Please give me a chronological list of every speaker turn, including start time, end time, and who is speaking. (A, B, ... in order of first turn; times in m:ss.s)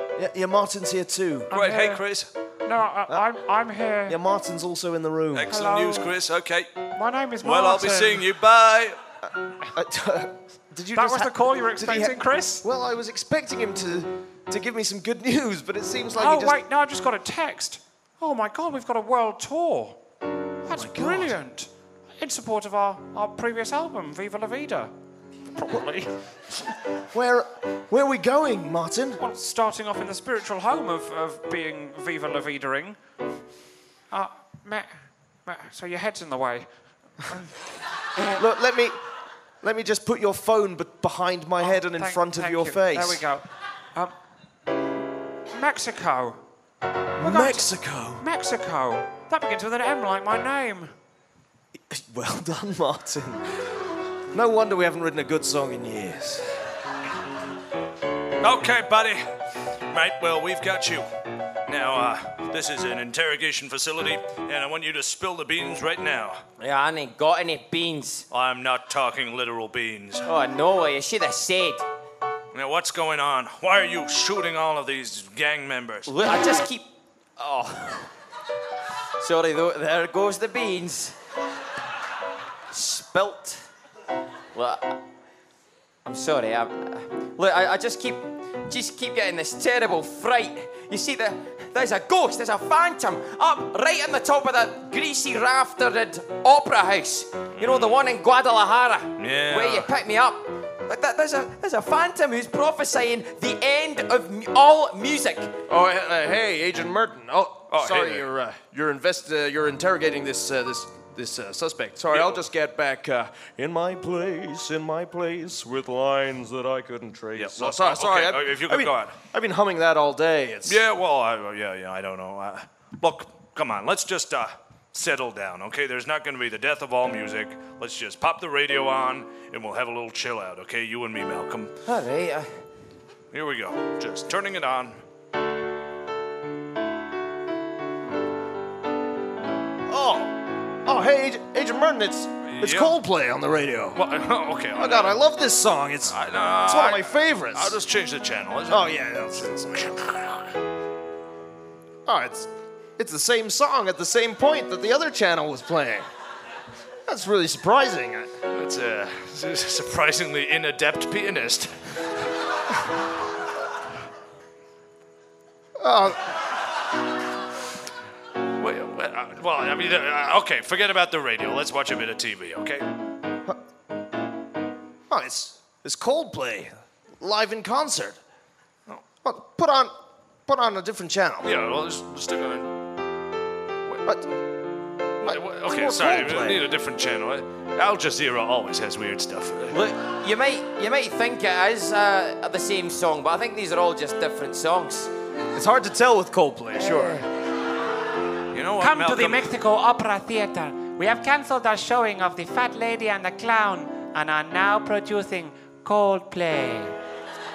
0:00.2-0:01.5 A
0:01.5-0:02.0 B
0:01.5-0:02.3 C
0:02.6-0:04.2 B
0:04.1-0:05.5 A
0:05.3-0:06.7 C
0:05.5-0:06.1 B
0:07.0-0:08.3 B
0:07.4-0:09.0 C
0:09.2-0:16.6 A
0:11.0-0:12.6 B
0:16.2-0:20.0 B
0:20.6-0:21.4 A
0:20.6-0:24.9 B
0:25.5-0:26.1 B
0:27.1-0:29.2 A
0:29.2-0:33.0 B
0:34.1-0:36.7 B
0:37.2-0:37.5 B
0:38.4-0:39.0 A
0:39.6-0:43.2 A
0:41.6-0:44.1 B
0:45.5-0:46.4 B
0:47.2-0:48.3 A
0:47.2-0:50.9 B
0:51.8-0:53.6 A
0:54.3-0:56.5 A
0:58.4-0:59.2 C
0:59.9-1:01.1 C
1:01.7-1:06.4 C
1:06.6-1:08.3 D
1:08.3-1:10.3 C
1:10.3-1:11.8 D
1:12.5-1:16.1 C
1:16.1-1:18.1 D
1:19.2-1:21.2 D
1:22.7-1:23.6 D
1:24.5-1:25.0 D
1:26.0-1:45.6 D
1:37.6-1:37.9 C
1:39.2-1:39.9 C
1:45.7-2:00.8 A
1:47.7-1:48.3 C
1:52.1-1:52.4 C
1:57.4-1:59.2 C
2:00.7-2:11.7 C
2:11.9-2:12.5 D
2:13.3-2:15.0 C
2:19.9-2:24.0 A
2:22.5-2:23.0 C
2:24.0-2:25.2 C
2:24.8-2:27.8 A
2:26.1-2:28.9 C
2:28.7-2:30.2 A
2:32.1-2:36.0 A
2:37.1-2:38.3 A
2:38.5-2:41.7 C
2:45.8-2:46.3 A
2:48.6-2:52.9 C
2:55.1-2:58.2 A
2:59.2-2:59.9 A
3:00.5-3:01.5 A
3:01.4-3:02.7 C
3:05.2-3:06.6 A
3:05.2-3:09.8 C
3:09.7-3:15.1 D
3:15.6-3:17.2 A
3:16.8-3:17.3 D
3:18.5-3:19.5 C
3:18.8-3:20.0 B
3:19.8-3:26.9 E
3:24.1-3:24.3 B